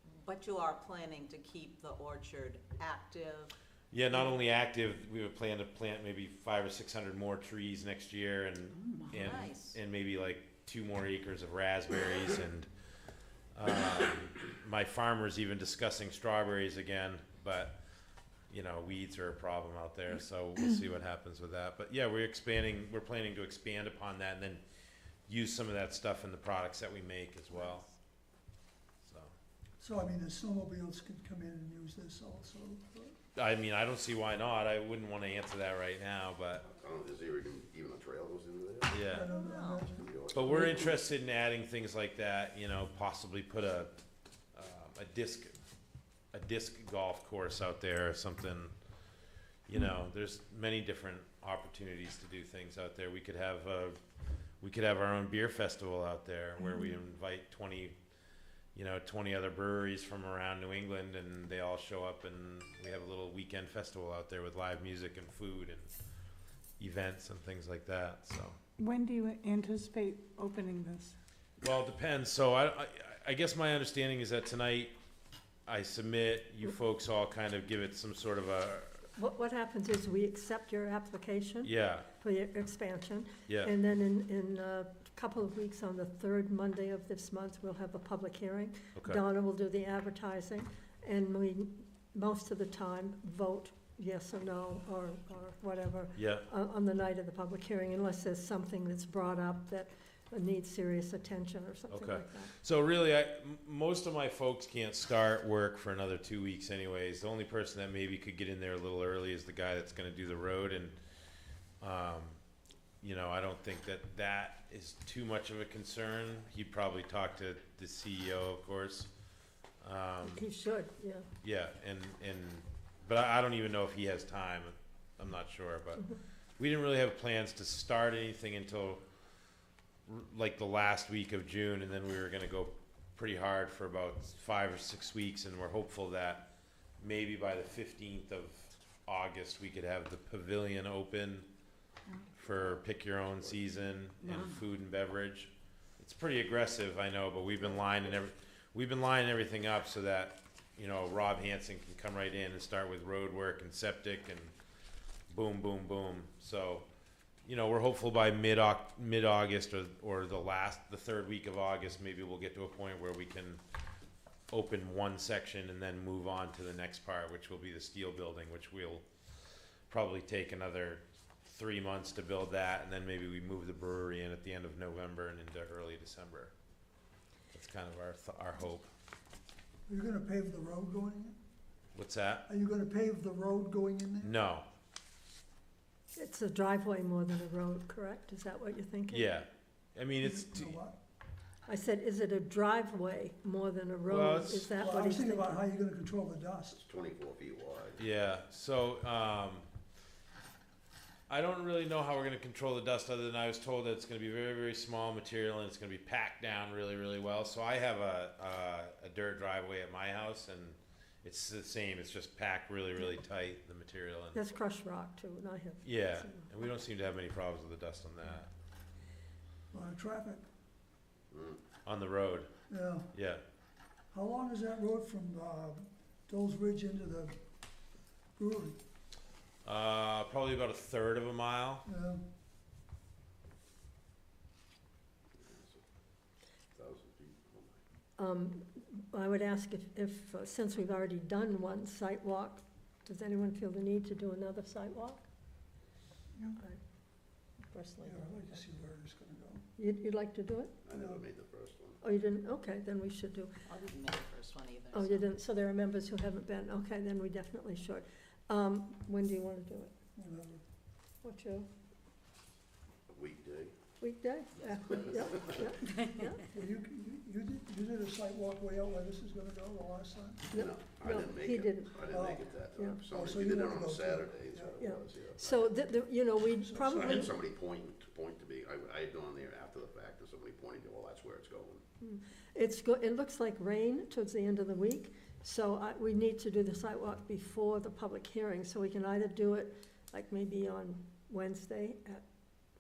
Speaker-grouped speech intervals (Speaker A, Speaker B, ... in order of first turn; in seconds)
Speaker A: 0.2-3.5, 8.8-9.8, 39.2-39.9, 253.7-255.3, 264.6-266.1
Speaker B: 3.9-12.7, 13.5-17.8, 18.5-24.6, 25.3-27.9, 29.1-29.3, 33.4-36.6, 38.9-39.3, 40.3-43.9, 44.5-45.6, 46.3-48.7, 49.7-54.0, 54.6-58.0, 58.8-65.9, 66.8-68.6, 71.6-74.9, 75.7-79.1, 81.6-82.1, 83.5-83.7, 89.0-89.2, 96.2-96.5, 101.9-111.0, 111.8-112.4, 113.0-119.1, 119.8-120.5, 121.4-129.0, 130.1-136.5, 137.0-141.5, 142.3-154.5, 155.3-156.9, 157.4-163.6, 164.5-169.1, 169.9-176.5, 177.5-178.9, 181.9-182.5, 184.2-184.7, 189.1-190.8, 194.1-194.7, 198.0-199.7, 201.3-214.4, 215.8-218.5, 221.8-222.5, 223.1-223.4, 229.7-231.8
Speaker C: 29.8-33.2, 39.1-41.0, 179.9-181.4, 182.5-184.3, 190.2-191.0, 194.8-196.8, 219.7-220.4, 222.7-223.1, 224.1-227.4, 228.4-228.8, 231.9-232.2, 248.0-249.7, 250.9-251.2, 260.2-260.6, 266.5-270.6, 272.1-272.5, 273.1-274.8, 276.6-277.3
Speaker D: 36.6-39.0, 39.9-41.0, 196.8-198.0, 221.3-221.6, 235.4-235.8, 236.7-237.8, 250.8-252.0, 263.1-263.8, 264.9-265.7, 270.5-275.7, 276.8-281.8
Speaker E: 68.8-71.2
Speaker F: 79.2-102.5, 120.2-121.3, 186.2-189.3, 191.7-195.6, 214.3-216.5, 238.2-245.3, 246.5-246.8, 247.7-248.5, 249.8-250.8, 252.0-253.6, 254.9-259.9, 261.2-261.7, 264.0-266.5, 270.5-272.1, 272.7-273.0, 274.8-277.4, 282.0-292.2